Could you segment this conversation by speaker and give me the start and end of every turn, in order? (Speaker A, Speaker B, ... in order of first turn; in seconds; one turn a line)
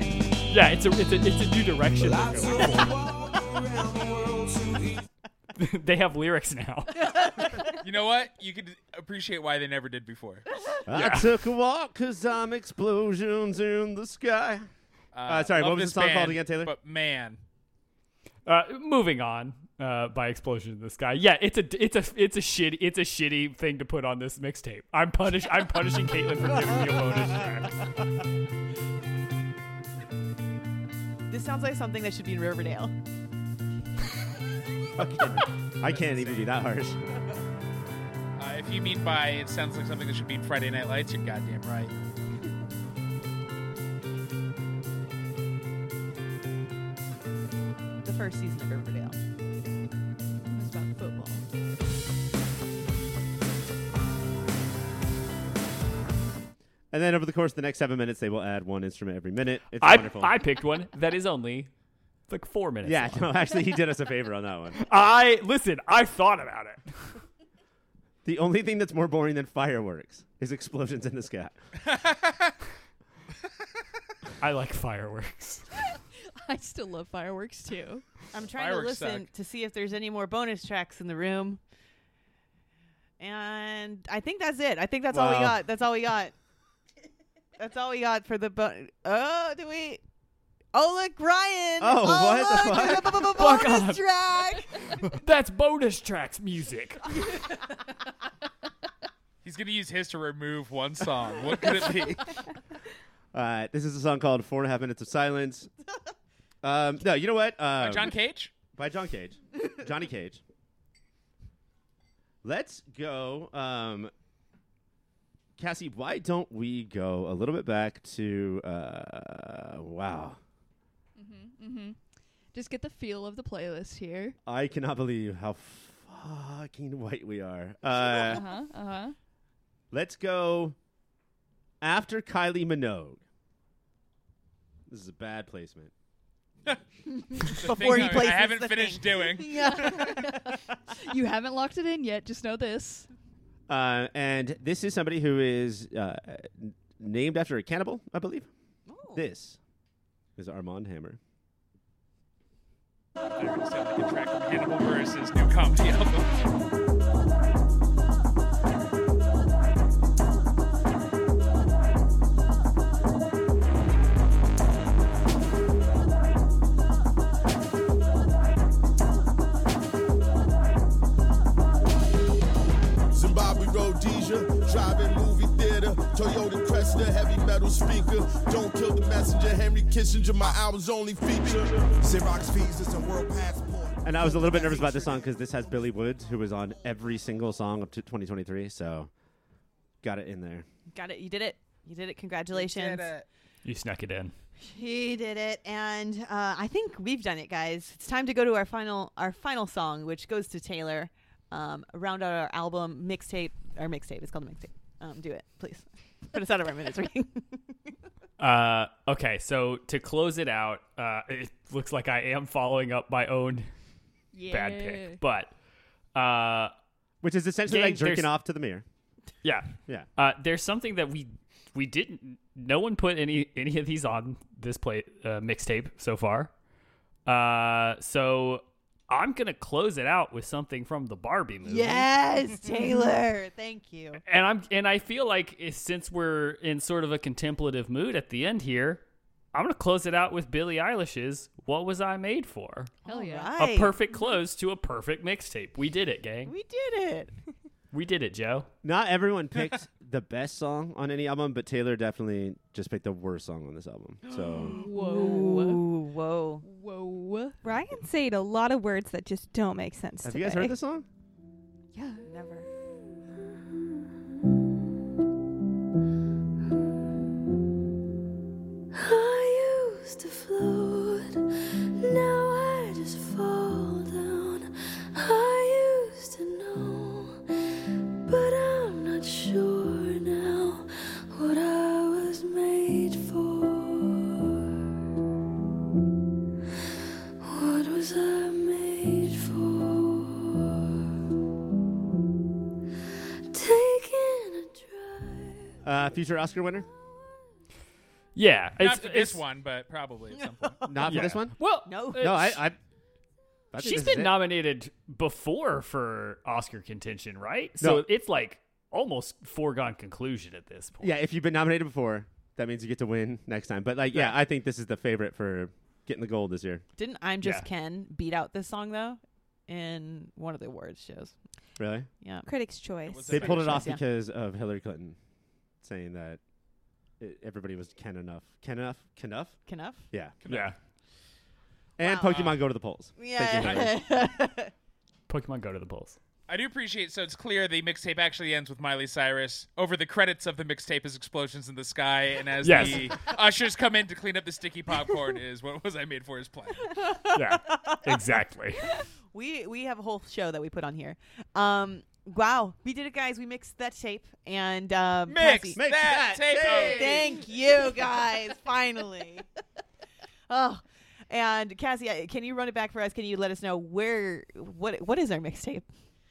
Speaker A: 0.5-3.0
Speaker B: 2.0-5.0
Speaker A: 5.5-7.7
Speaker C: 7.8-10.4
Speaker A: 10.7-11.4
Speaker D: 10.9-14.7
Speaker C: 15.1-17.4
Speaker D: 15.2-16.7
Speaker A: 18.4-27.8
Speaker E: 31.3-32.9
Speaker D: 35.0-37.0
Speaker C: 35.9-36.4
Speaker C: 38.4-41.9
Speaker E: 48.0-49.1
Speaker F: 50.5-51.4
Speaker D: 56.9-60.3
Speaker A: 59.8-61.7
Speaker A: 62.3-63.5
Speaker D: 62.8-64.8
Speaker A: 64.8-67.2
Speaker D: 68.2-71.5
Speaker C: 71.8-72.5
Speaker A: 74.4-75.9
Speaker F: 76.4-78.0
Speaker E: 78.3-81.6
Speaker C: 78.5-79.3
Speaker E: 83.2-86.3
Speaker D: 85.1-85.6
Speaker E: 87.6-90.0
Speaker E: 90.7-94.9
Speaker D: 91.8-93.2
Speaker A: 93.3-94.0
Speaker A: 94.9-97.5
Speaker C: 99.4-102.5
Speaker D: 103.3-105.7
Speaker D: 106.6-108.1
Speaker C: 107.8-108.5
Speaker D: 108.7-110.4
Speaker D: 112.4-114.1
Speaker D: 115.6-120.4
Speaker F: 121.2-122.0
Speaker F: 122.5-124.3
Speaker D: 124.5-128.4
Speaker F: 128.0-129.1
Speaker D: 129.9-130.8
Speaker D: 131.8-133.2
Speaker D: 134.9-135.9
Speaker E: 137.1-140.5
Speaker C: 137.5-140.1
Speaker F: 139.6-143.1
Speaker D: 143.7-148.5
Speaker E: 148.9-149.2
Speaker D: 149.1-149.6
Speaker D: 150.3-151.2
Speaker C: 153.3-156.5
Speaker B: 173.1-185.2
Speaker D: 184.0-189.1
Speaker D: 190.0-190.7
Speaker E: 190.9-193.1
Speaker C: 192.5-193.2
Speaker A: 193.6-194.3
Speaker E: 194.6-207.8
Speaker A: 208.4-213.7
Speaker F: 214.3-215.2
Speaker A: 214.5-215.5
Speaker A: 216.1-216.7
Speaker D: 217.2-218.8
Speaker A: 217.7-218.3
Speaker A: 219.4-226.5
Speaker A: 227.2-232.1
Speaker E: 231.6-234.2
Speaker A: 234.2-242.9
Speaker E: 243.0-244.0
Speaker F: 243.1-243.5
Speaker A: 243.5-246.5
Speaker E: 246.4-247.3
Speaker A: 247.9-248.7
Speaker D: 248.8-254.8
Speaker E: 254.2-256.6
Speaker F: 254.7-255.8
Speaker F: 256.6-257.6
Speaker G: 257.6-260.8
Speaker D: 260.2-261.1
Speaker F: 261.9-262.2
Speaker E: 262.2-262.7
Speaker H: 269.0-271.4
Speaker H: 272.0-277.4
Speaker H: 278.3-284.4
Speaker H: 287.4-290.5
Speaker H: 293.5-295.8
Speaker D: 295.8-296.9
Speaker A: 298.3-299.4
Speaker C: 298.8-301.2
Speaker E: 300.8-301.2
Speaker D: 300.9-302.8
Speaker A: 301.0-302.6
Speaker E: 301.8-302.6
Speaker D: 303.7-304.3
Speaker A: 303.8-311.1
Speaker D: 307.8-308.1
Speaker D: 311.0-316.8
Speaker E: 317.0-321.4
Speaker A: 317.4-317.7
Speaker D: 321.8-322.1
Speaker E: 322.2-322.5
Speaker G: 322.4-323.5
Speaker C: 323.0-323.9
Speaker E: 323.2-324.0
Speaker D: 323.3-325.2
Speaker D: 325.8-326.4
Speaker D: 327.2-330.4
Speaker E: 329.6-330.1
Speaker C: 330.4-330.7
Speaker A: 330.4-330.8
Speaker D: 332.0-334.0
Speaker E: 332.0-332.5
Speaker E: 333.2-334.7
Speaker A: 335.3-336.2
Speaker C: 336.5-346.9
Speaker A: 342.6-343.3
Speaker E: 346.9-348.2
Speaker A: 347.3-348.9
Speaker E: 349.3-355.8
Speaker C: 355.2-357.3
Speaker D: 355.7-357.4
Speaker E: 356.5-359.4
Speaker E: 360.5-365.9